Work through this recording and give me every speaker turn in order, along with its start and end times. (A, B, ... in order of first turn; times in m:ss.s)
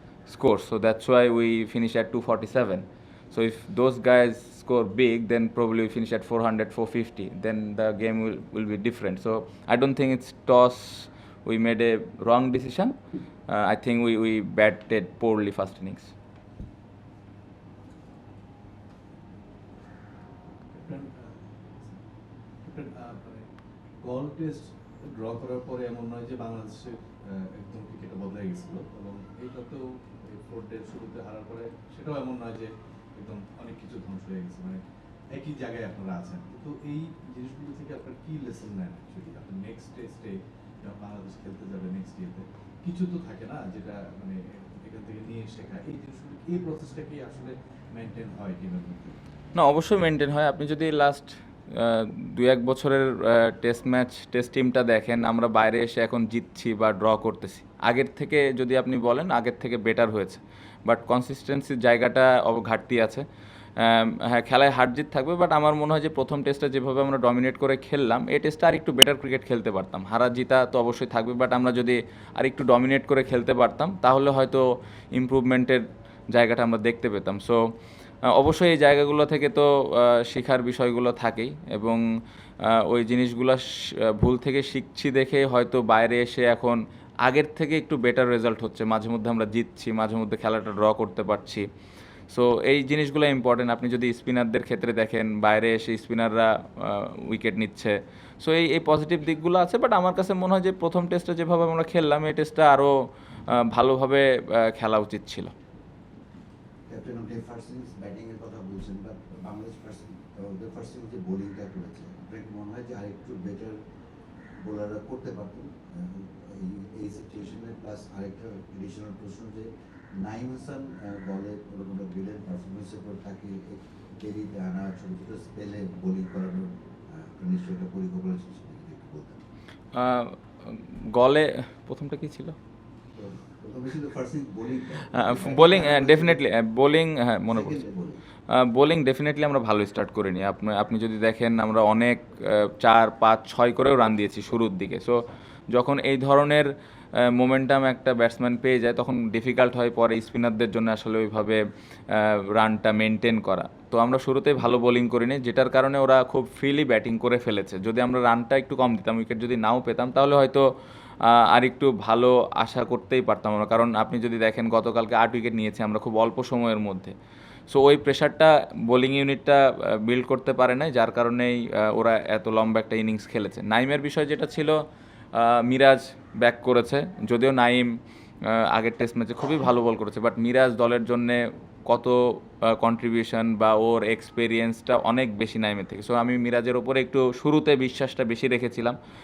0:00.2-0:12.9 A
0:13.5-0:16.1 A
0:20.6-0:49.2 B
0:49.5-1:03.2 A
1:03.8-1:17.6 A
1:18.2-1:22.0 A
1:22.6-1:31.7 A
1:32.3-1:42.9 A
1:43.5-1:45.5 A
1:46.9-1:53.8 C
1:54.6-2:09.4 C
2:09.9-2:12.5 A
2:13.1-2:16.4 C
2:15.1-2:17.8 A
2:17.5-2:18.2 C
2:18.5-2:40.6 A
2:41.2-2:47.1 A
2:47.7-2:54.8 A
2:55.3-2:57.9 A
2:58.4-3:09.0 A